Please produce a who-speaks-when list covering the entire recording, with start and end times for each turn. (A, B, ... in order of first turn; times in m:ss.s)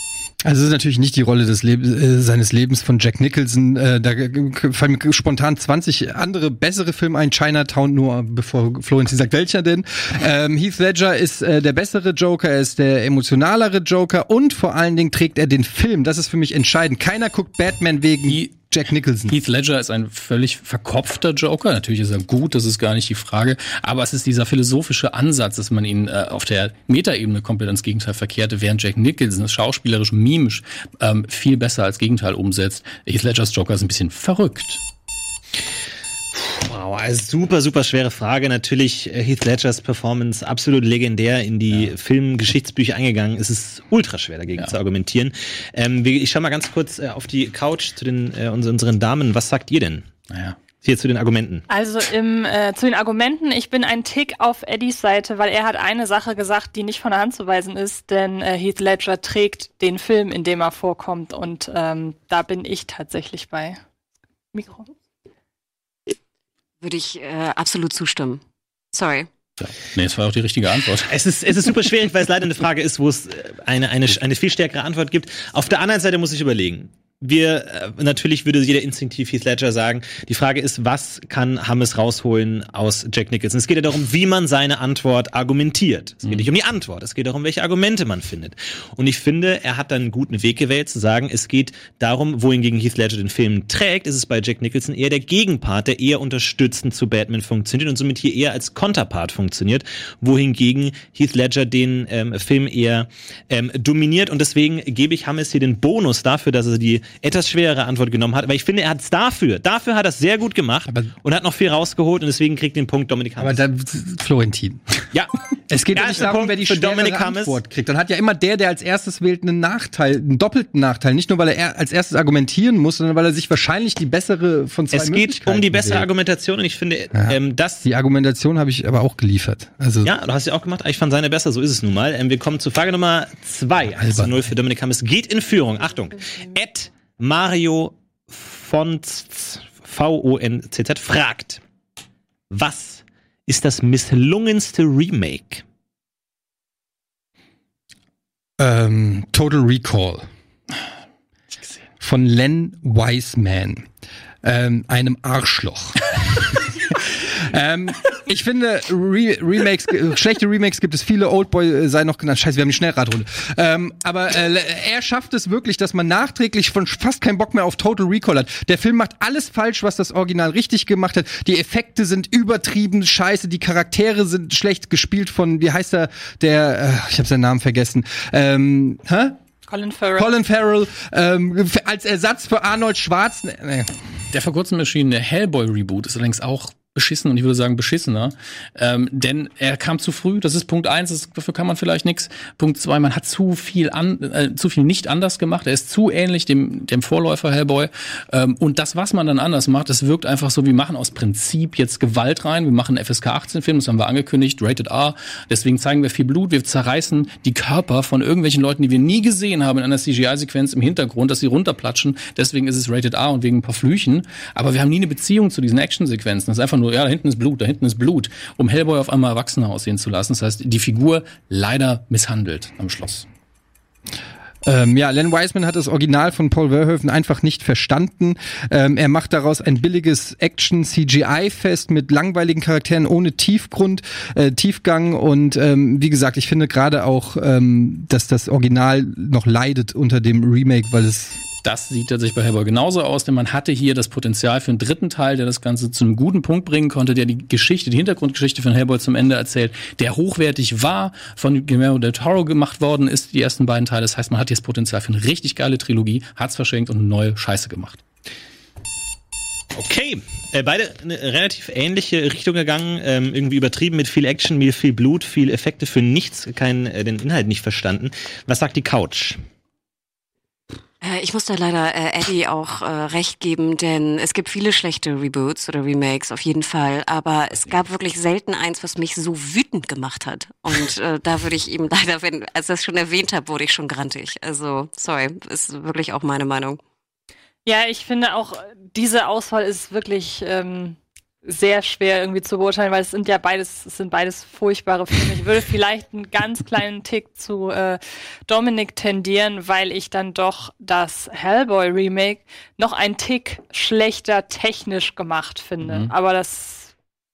0:00.4-0:19.4 A
0:19.3-0:34.8 B
0:36.4-0:50.1 C
0:50.3-0:50.6 B
0:50.8-0:51.7 C
0:51.7-1:03.8 D
1:04.5-1:04.9 D
1:06.8-1:08.4 E
1:08.9-1:09.3 E
1:09.6-1:11.1 B
1:11.1-1:53.6 C
1:53.4-1:55.1 A
1:55.7-2:06.1 A
1:55.9-1:57.6 C
2:04.9-2:07.8 C
2:07.1-2:10.1 A
2:10.0-2:21.6 C
2:14.0-2:14.4 A
2:22.5-2:25.6 C
2:28.6-2:30.3 A
2:32.0-2:33.9 A
2:34.4-2:59.4 A
2:59.7-3:00.3 D
3:00.2-3:04.0 A
3:04.3-3:43.3 B
3:44.6-4:01.4 A
4:01.6-4:18.0 B
4:19.8-4:29.4 C
4:31.0-4:46.8 E
4:47.6-5:06.9 D
5:05.8-5:06.1 B